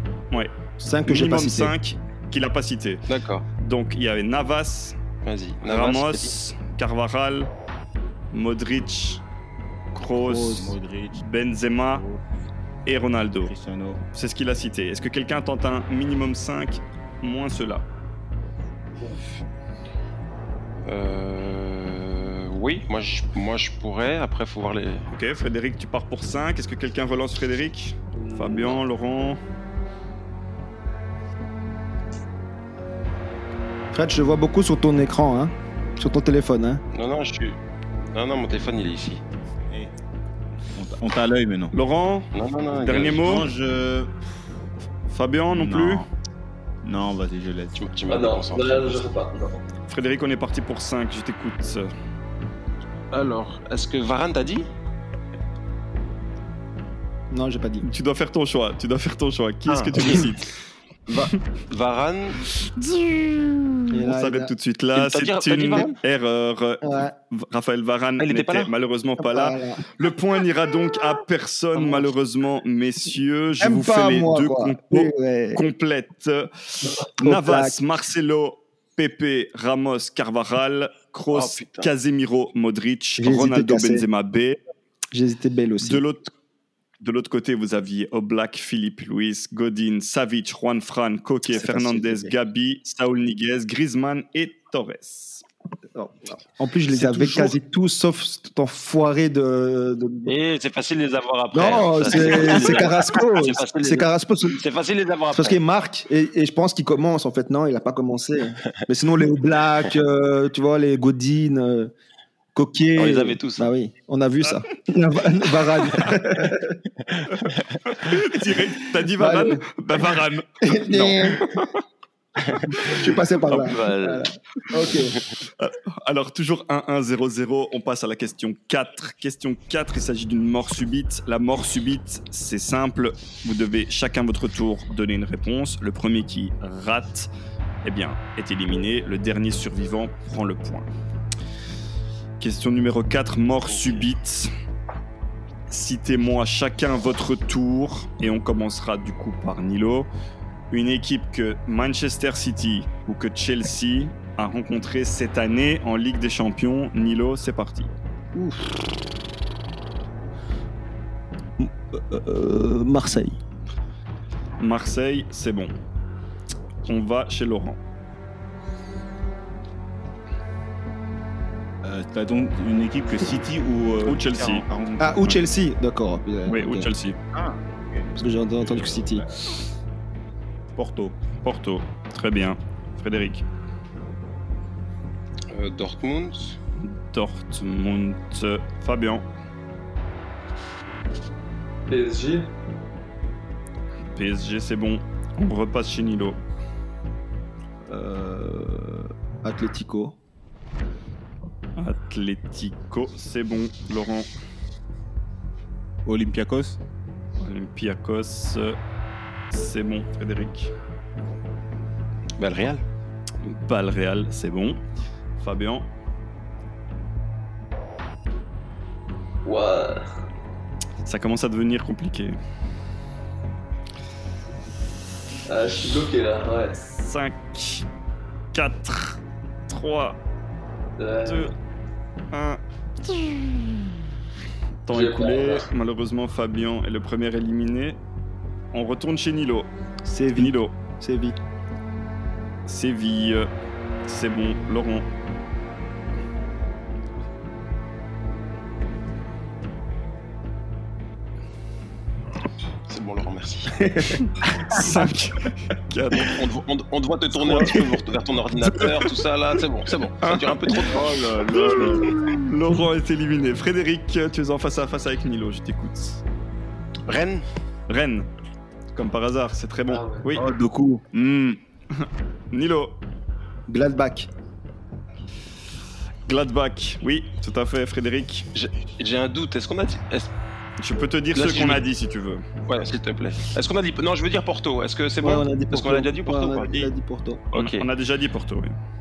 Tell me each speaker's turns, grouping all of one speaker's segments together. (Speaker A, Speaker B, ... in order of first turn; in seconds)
Speaker A: 0.8-1.7, 33.9-36.8, 57.3-57.9, 63.9-64.5, 66.8-67.1, 69.2-69.8, 73.6-75.6, 77.2-77.8, 83.2-84.1, 85.1-86.0, 96.0-100.3, 101.5-104.6, 105.3-111.9, 112.5-116.8, 119.2-119.6, 120.6-121.6, 122.7-125.2, 158.3-158.8, 161.6-163.4, 175.0-176.9, 178.2-179.2, 197.9-200.2, 240.0-241.4, 253.8-254.2, 273.7-274.3, 285.2-287.4
Speaker B: 1.1-3.0, 3.6-5.0, 5.7-7.5, 8.3-9.2, 9.9-12.0, 12.9-13.5, 14.1-17.9, 25.1-29.4, 41.7-43.5, 45.1-46.0, 49.9-51.9, 57.8-60.5, 62.6-84.6, 85.8-86.3, 87.0-95.5, 96.9-97.5, 117.8-121.8, 122.7-123.7, 125.6-137.3, 137.8-140.9, 142.4-144.5, 145.7-150.1, 150.7-157.9, 164.6-165.7, 166.9-167.8, 174.0-174.7, 176.5-177.2, 181.4-183.4, 186.8-189.2, 194.1-196.4, 201.8-204.3, 207.4-208.8, 209.5-210.7, 213.4-214.8, 215.4-215.9, 221.1-222.4, 226.8-227.9, 228.5-230.2, 231.2-231.5, 232.3-233.9, 234.8-238.0, 238.7-239.7, 240.3-240.7, 242.7-243.5, 244.1-245.1, 254.6-256.4, 257.4-257.8, 258.8-259.1, 260.2-260.9, 261.4-266.2, 267.9-268.3, 268.9-270.4, 272.0-273.0, 276.3-278.5, 280.8-282.4, 287.6-288.8
Speaker C: 3.1-3.5, 5.2-6.3, 20.9-25.1, 36.9-37.6, 38.1-39.2, 42.3-43.4, 47.8-49.1, 53.1-54.7, 59.7-60.4, 61.1-62.4, 65.0-66.0, 68.2-68.7, 81.3-81.9, 100.3-105.6, 113.0-113.7, 117.1-117.8, 123.5-124.3, 124.9-125.2, 185.5-186.6, 212.4-212.8, 252.9-253.9, 256.2-262.1, 267.1-267.4, 278.6-280.3, 281.4-281.8, 282.7-286.9, 287.5-287.9
Speaker D: 10.2-11.2, 13.4-14.0, 40.8-41.7, 42.8-44.2, 45.5-46.1, 46.8-47.9, 171.8-175.3, 177.3-178.1, 178.6-179.3, 180.8-181.2, 206.1-206.8, 260.9-262.2, 270.3-271.6
Speaker E: 28.2-28.7, 48.1-49.6, 191.9-192.5, 219.4-220.1, 225.5-226.8, 231.0-231.5, 234.9-235.7, 269.9-270.3